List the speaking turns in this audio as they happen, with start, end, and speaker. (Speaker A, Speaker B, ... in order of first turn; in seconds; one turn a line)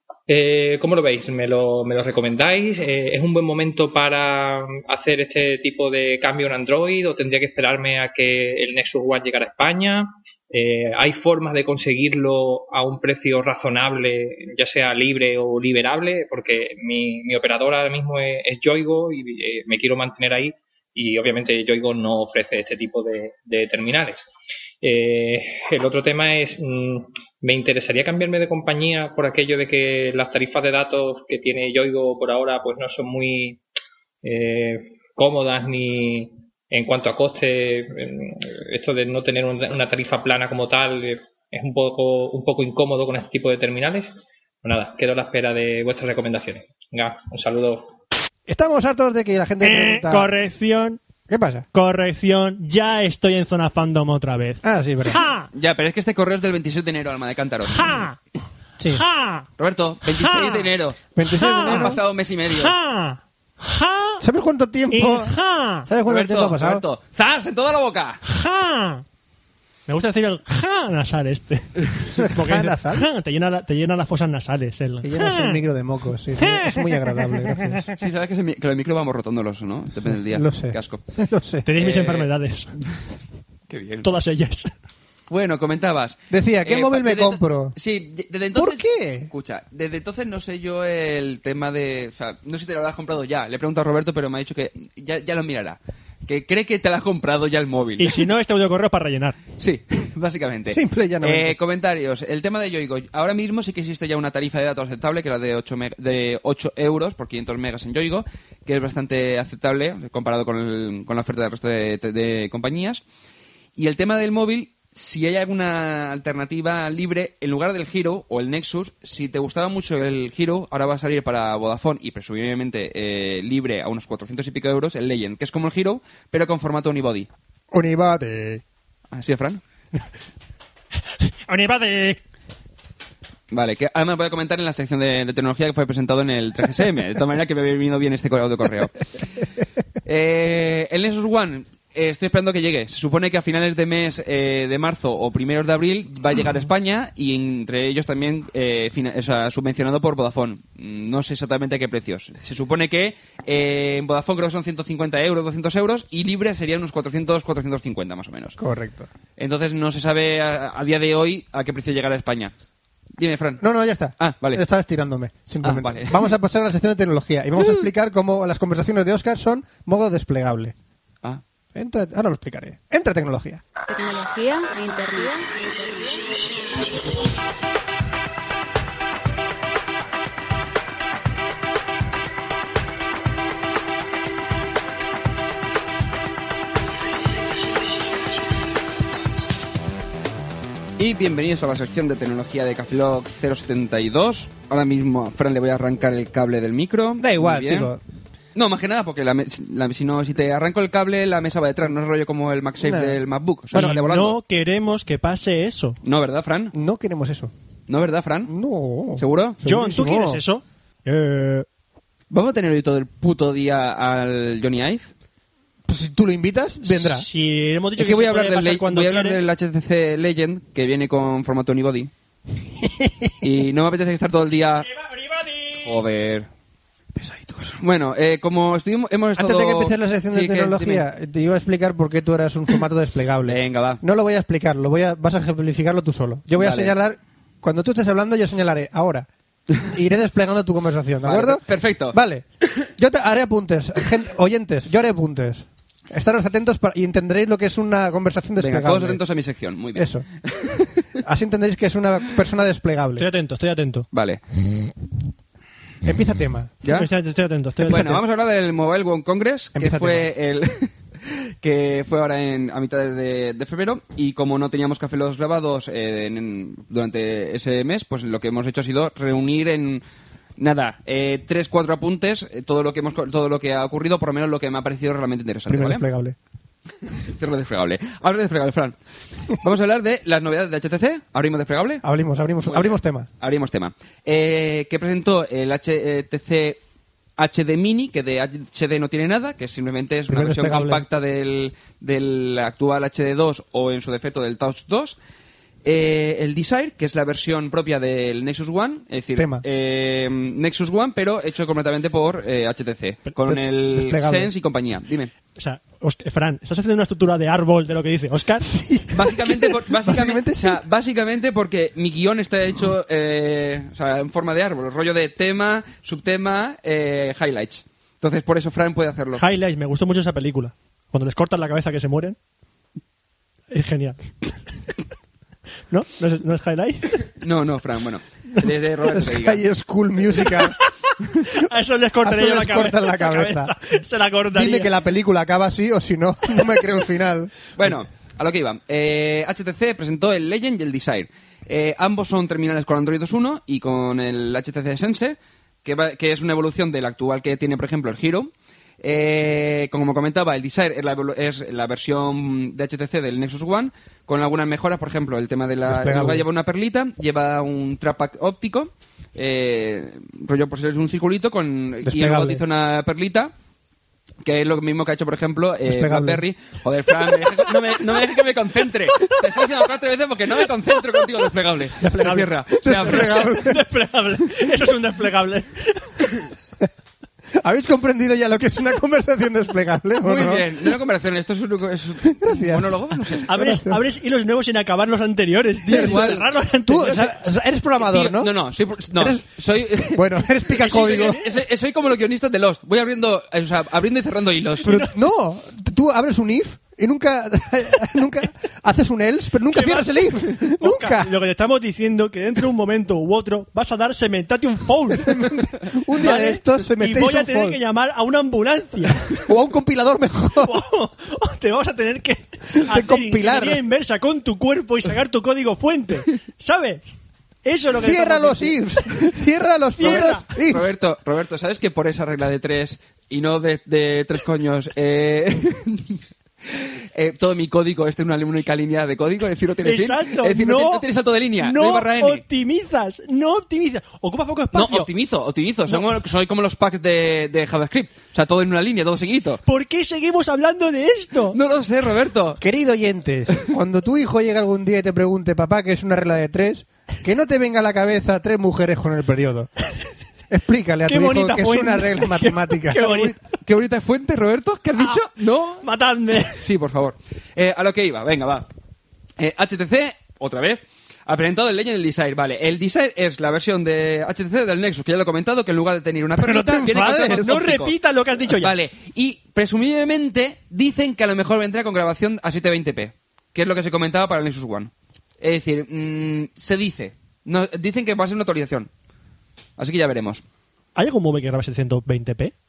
Speaker A: 0.3-24.2
Speaker A: 24.8-33.6
Speaker A: 34.2-44.1
Speaker A: 44.6-47.9
Speaker B: 48.5-50.3
Speaker C: 49.6-51.0
Speaker B: 51.3-51.6
Speaker C: 51.7-55.5
Speaker B: 54.6-55.2
Speaker D: 55.5-57.9
Speaker C: 57.7-58.2
Speaker C: 58.9-59.5
Speaker D: 59.6-62.7
Speaker C: 60.1-60.7
Speaker B: 61.1-62.0
Speaker C: 61.3-61.9
Speaker C: 62.5-64.2
Speaker B: 64.2-65.3
Speaker C: 64.9-65.9
Speaker B: 65.8-66.8
Speaker D: 66.0-68.2
Speaker C: 68.2-69.0
Speaker C: 69.9-75.6
Speaker B: 72.1-73.0
Speaker B: 75.0-77.9
Speaker C: 76.4-77.7
Speaker D: 78.0-81.0
Speaker B: 80.1-81.6
Speaker C: 81.6-82.8
Speaker D: 81.8-82.3
Speaker D: 83.7-84.1
Speaker C: 84.0-84.7
Speaker D: 85.3-98.2
Speaker B: 86.3-87.7
Speaker B: 88.5-89.3
Speaker C: 98.0-99.4
Speaker D: 99.6-113.0
Speaker B: 100.7-101.6
Speaker D: 113.8-127.3
Speaker B: 127.7-128.6
Speaker D: 129.1-129.6
Speaker C: 131.2-132.2
Speaker D: 133.5-139.1
Speaker D: 140.0-158.6
Speaker B: 158.6-159.1
Speaker D: 159.4-162.5
Speaker D: 163.2-163.7
Speaker B: 163.6-170.7
Speaker D: 164.2-164.6
Speaker D: 165.6-166.3
Speaker B: 171.7-173.6
Speaker E: 173.9-176.4
Speaker D: 191.0-197.9
Speaker B: 197.2-198.0
Speaker D: 198.5-204.4
Speaker B: 202.8-203.2
Speaker C: 203.7-206.0
Speaker D: 206.0-206.7
Speaker B: 206.7-207.5
Speaker D: 207.9-208.5
Speaker B: 208.5-210.4
Speaker D: 209.2-209.6
Speaker C: 209.6-211.7
Speaker D: 212.3-215.1
Speaker B: 215.8-217.2
Speaker C: 216.8-219.4
Speaker D: 217.9-222.1
Speaker B: 222.8-223.3
Speaker D: 223.4-224.9
Speaker C: 224.8-226.0
Speaker D: 225.8-226.5
Speaker D: 227.2-231.1
Speaker B: 229.3-239.3
Speaker D: 233.4-234.0
Speaker D: 236.6-236.9
Speaker B: 239.8-242.4
Speaker D: 241.2-242.2
Speaker B: 243.0-249.2
Speaker D: 248.6-250.9
Speaker B: 249.9-250.2
Speaker B: 251.2-253.3
Speaker C: 253.2-254.1
Speaker D: 254.1-254.4
Speaker B: 256.0-256.7
Speaker D: 256.8-257.1
Speaker C: 256.8-258.2
Speaker D: 257.8-270.0
Speaker B: 259.8-260.3
Speaker D: 270.6-276.0
Speaker B: 275.7-276.4
Speaker D: 277.3-278.9
Speaker D: 279.5-282.0
Speaker B: 282.0-283.3
Speaker D: 282.6-286.8
Speaker D: 287.4-295.2
Speaker B: 290.3-291.0
Speaker D: 295.8-305.3
Speaker B: 299.4-299.6
Speaker B: 303.4-304.5
Speaker C: 305.6-308.7
Speaker B: 308.6-310.8
Speaker D: 309.1-319.4
Speaker C: 319.4-322.4
Speaker C: 323.7-324.3
Speaker C: 325.9-327.2
Speaker D: 327.4-329.6
Speaker B: 329.1-330.8
Speaker C: 331.4-334.9
Speaker B: 332.2-333.8
Speaker B: 334.5-337.5
Speaker D: 337.7-363.5
Speaker B: 355.9-356.4
Speaker B: 362.0-362.6
Speaker D: 364.4-373.5
Speaker B: 365.9-366.4
Speaker C: 372.0-376.1
Speaker B: 372.0-373.8
Speaker B: 377.6-380.7
Speaker D: 380.2-383.5
Speaker B: 382.3-384.0
Speaker C: 383.5-387.3
Speaker D: 385.9-386.5
Speaker B: 385.9-388.5
Speaker D: 388.0-394.9
Speaker B: 389.1-389.4
Speaker B: 390.0-391.4
Speaker C: 390.8-391.4
Speaker B: 394.8-401.3
Speaker C: 394.9-395.1
Speaker C: 399.7-405.5
Speaker B: 405.1-407.8
Speaker C: 406.2-409.3
Speaker B: 409.3-410.8
Speaker C: 410.6-417.1
Speaker B: 412.7-413.8
Speaker C: 417.6-418.8
Speaker B: 417.9-420.9
Speaker C: 419.9-420.4
Speaker D: 420.0-432.4
Speaker C: 429.8-431.0
Speaker C: 431.6-435.1
Speaker D: 434.7-439.6
Speaker C: 439.6-441.6
Speaker D: 441.5-442.6
Speaker B: 442.6-449.7
Speaker B: 450.5-453.0
Speaker C: 451.1-453.3
Speaker D: 453.0-455.9
Speaker C: 455.0-455.2
Speaker C: 455.8-456.6
Speaker D: 456.4-458.7
Speaker D: 459.4-467.9
Speaker B: 466.4-467.5
Speaker C: 466.9-468.7
Speaker D: 468.5-478.9
Speaker D: 479.8-480.4
Speaker C: 480.9-482.5